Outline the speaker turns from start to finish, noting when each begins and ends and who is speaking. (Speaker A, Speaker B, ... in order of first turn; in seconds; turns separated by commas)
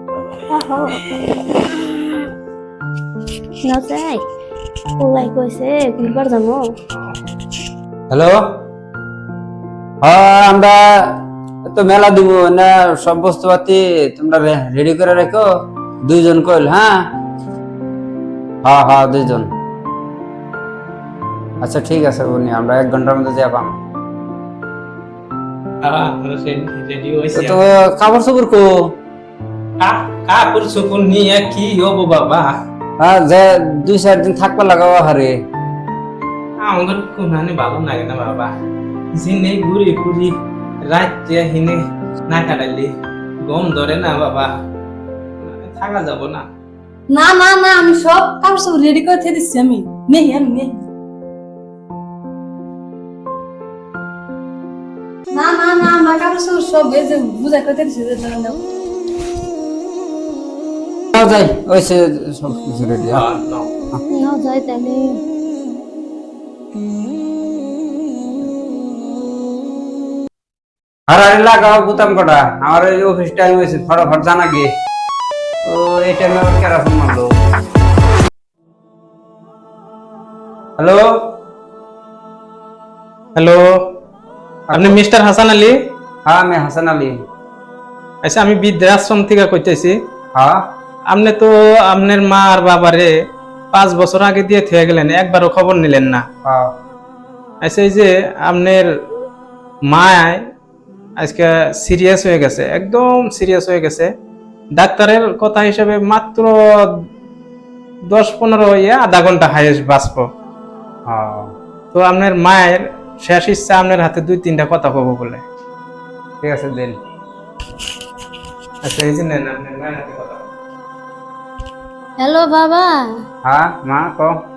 Speaker A: 0.5-1.0, Speaker A: 3.6-4.2, Speaker A: 5.0-6.6, Speaker B: 8.1-8.4, Speaker B: 10.0-15.5, Speaker B: 16.1-17.0, Speaker B: 18.6-19.5, Speaker B: 21.6-23.8, Speaker C: 25.8-27.6, Speaker B: 27.3-28.7, Speaker C: 29.8-32.5, Speaker B: 33.0-35.4, Speaker C: 36.6-38.5, Speaker C: 39.2-40.3, Speaker C: 40.9-42.9, Speaker C: 43.5-44.5, Speaker C: 45.4-46.5, Speaker D: 47.1-50.8, Speaker D: 55.3-58.6, Speaker B: 61.1-63.2, Speaker C: 63.1-63.7, Speaker A: 64.1-65.1, Speaker B: 71.1-74.7, Speaker B: 75.7-77.4, Speaker B: 80.8-81.0, Speaker C: 83.4-83.6, Speaker B: 84.7-85.0, Speaker C: 84.7-85.7, Speaker B: 86.3-87.2, Speaker C: 88.2-90.0, Speaker C: 91.1-93.1, Speaker C: 93.7-96.2, Speaker B: 96.5-96.7, Speaker C: 97.6-98.8, Speaker C: 99.9-100.4, Speaker C: 101.2-104.1, Speaker C: 104.8-106.5, Speaker C: 108.1-110.3, Speaker B: 111.1-111.5, Speaker C: 111.9-115.4, Speaker B: 116.4-117.0, Speaker C: 118.8-120.5, Speaker A: 122.2-122.9, Speaker B: 123.5-124.3